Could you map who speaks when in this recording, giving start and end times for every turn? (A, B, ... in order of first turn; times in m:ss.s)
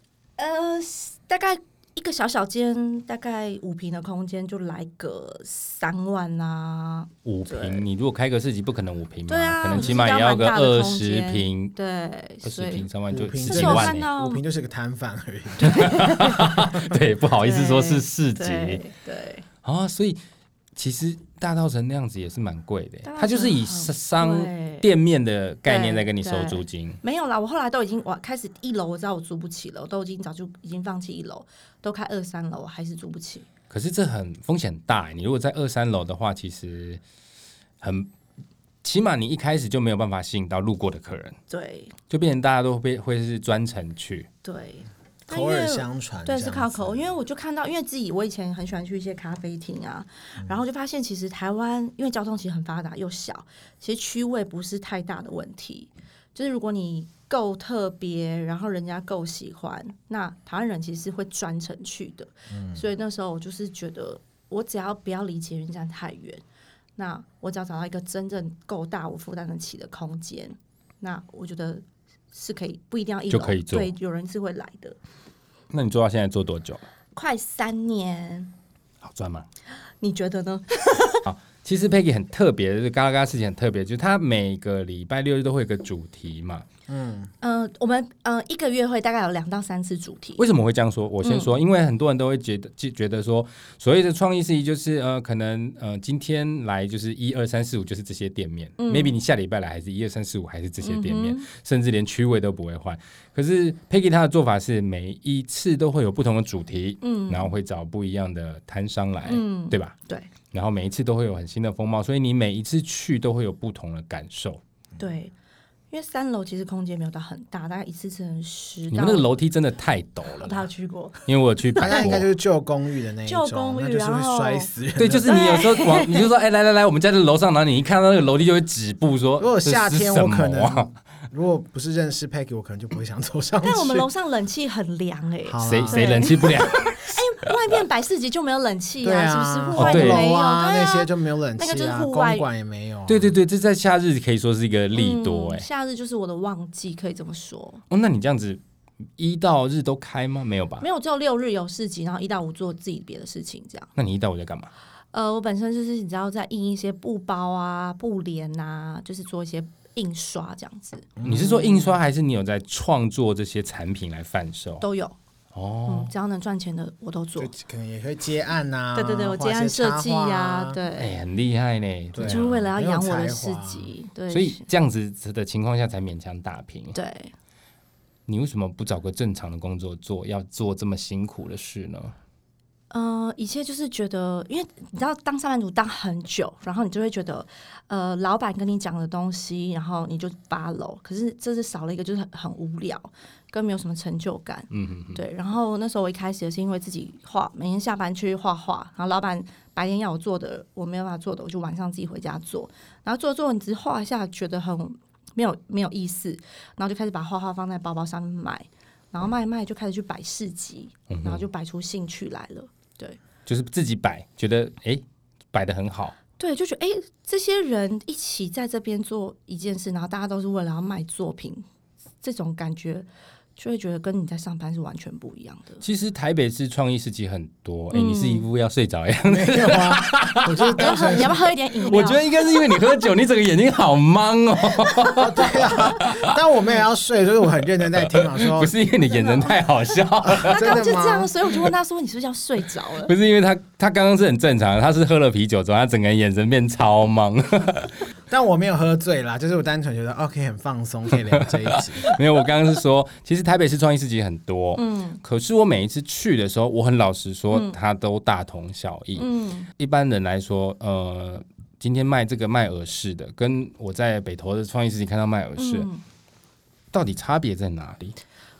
0:00.4-0:07.8 A
0:07.2-0:11.8 B
0:09.3-0:12.9 A
0:12.4-0:14.1 B
0:13.1-0:17.0 C
0:13.5-0:14.4 A
0:15.6-0:16.5 A
0:15.6-0:18.8 B
0:17.4-0:19.4 A
0:19.6-0:20.2 B
0:20.8-0:27.0 B
0:23.0-0:24.9 A
0:25.7-0:33.5 A
0:33.7-0:37.0 B
0:37.8-0:38.1 B
0:38.8-0:41.4 B
0:41.5-0:42.0 A
0:42.1-0:44.3 B
0:44.4-1:06.4 A
0:45.3-0:47.1 C
1:02.5-1:02.8 C
1:07.0-1:15.0 A
1:13.3-1:13.9 B
1:15.7-1:16.8 B
1:17.2-1:18.5 A
1:19.0-1:19.5 B
1:20.0-1:21.2 A
1:21.2-1:26.7 B
1:26.9-1:27.3 C
1:27.4-1:30.4 A
1:30.4-1:50.0 B
1:31.2-1:31.5 A
1:38.8-1:39.2 A
1:40.8-1:41.5 A
1:47.0-1:47.6 A
1:49.2-1:50.3 A
1:50.5-1:54.6 B
1:55.0-1:55.4 A
1:55.9-1:59.3 A
1:58.9-2:00.6 B
2:00.3-2:01.8 A
2:01.3-2:02.3 B
2:01.8-2:05.3 C
2:03.2-2:04.7 A
2:05.0-2:10.9 B
2:05.3-2:06.3 A
2:09.4-2:14.1 C
2:13.6-2:22.5 A
2:15.4-2:16.6 C
2:15.6-2:17.5 B
2:19.0-2:23.4 C
2:19.8-2:20.3 B
2:23.1-2:25.6 B
2:25.0-2:27.8 A
2:27.9-2:28.6 B
2:29.2-2:30.8 B
2:30.8-2:33.9 A
2:34.0-2:34.7 B
2:35.1-2:41.1 A
2:41.2-2:42.0 C
2:41.2-2:44.8 B
2:44.8-2:45.2 A
2:45.5-2:46.1 B
2:45.9-2:47.5 A
2:47.4-2:50.8 C
2:49.0-2:51.2 A
2:51.0-2:52.4 B
2:52.1-2:53.9 C
2:52.2-2:54.6 A
2:54.3-2:57.0 B
2:56.9-2:57.3 A
2:58.3-3:02.1 B
3:02.9-3:33.2 A
3:14.7-3:15.2 B
3:31.1-3:31.4 B
3:33.5-3:36.2 B
3:36.4-3:41.6 A
3:42.2-3:45.8 A
3:45.8-3:51.2 B
3:47.9-3:48.4 A
3:49.3-3:51.4 C
3:50.7-3:52.6 A
3:51.8-3:56.4 B
3:54.9-3:55.2 A
3:55.1-3:58.7 C
3:57.9-4:00.8 B
3:59.0-3:59.6 A
4:00.3-4:01.4 C
4:00.4-4:03.1 A
4:03.0-4:08.0 B
4:08.3-4:12.1 C
4:11.7-4:25.9 B
4:14.8-4:15.2 A
4:17.5-4:17.8 A
4:19.2-4:19.7 A
4:25.6-4:26.0 A
4:26.9-4:28.2 B